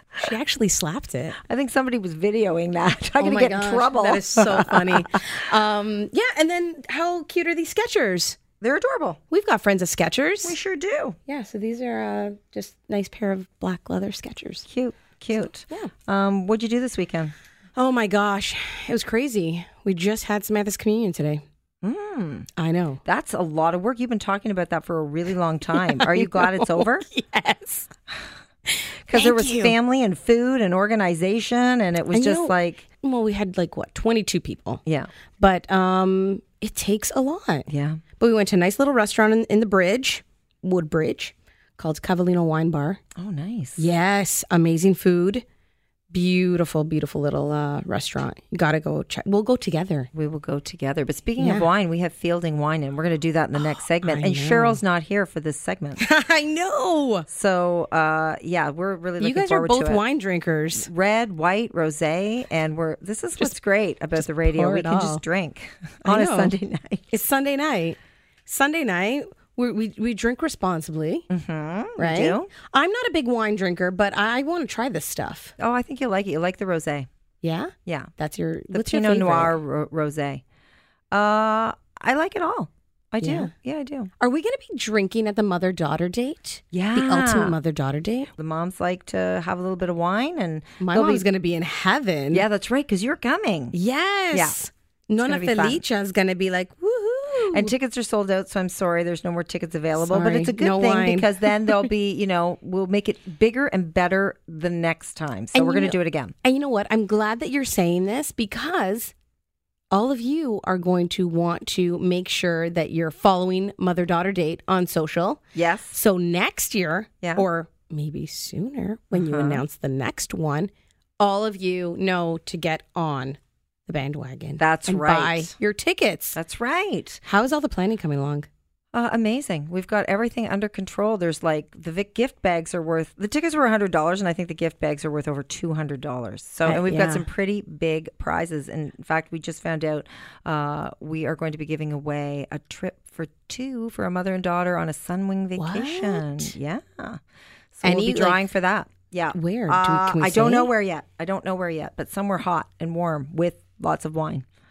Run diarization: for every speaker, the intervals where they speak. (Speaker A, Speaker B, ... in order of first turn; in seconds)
Speaker A: 0.2-1.4, 3.2-8.4, 9.3-10.6, 11.3-14.7, 17.8-21.4, 22.6-23.0, 25.8-27.9, 28.7-29.7, 32.1-34.8, 35.4-37.7, 38.2-43.0, 43.8-45.4, 46.1-50.1, 51.4-51.7, 53.6-54.8, 56.0-57.3, 59.2-60.9, 64.2-65.2, 66.0-66.5, 67.1-71.3, 72.0-75.5, 77.4-79.5, 83.2-83.5, 84.2-88.3, 90.8-92.4, 93.7-97.7, 100.0-101.8, 105.5-109.1, 109.9-126.4, 127.2-128.5, 136.7-137.2, 145.6-146.6, 147.8-148.4, 149.3-150.7
Speaker B: 1.5-5.2, 8.6-9.2, 10.4-11.2, 14.7-17.3, 21.8-22.5, 23.0-27.1, 29.1-32.8, 37.7-38.0, 43.1-43.9, 50.1-56.0, 57.3-60.0, 60.8-67.2, 71.3-72.5, 75.6-77.1, 77.8-78.1, 78.7-80.4, 81.1-84.1, 86.7-87.6, 88.3-91.2, 92.3-93.7, 95.2-95.8, 97.5-106.3, 115.5-116.0, 119.1-119.6, 124.6-125.5, 126.3-127.2, 128.9-147.2, 147.7-154.4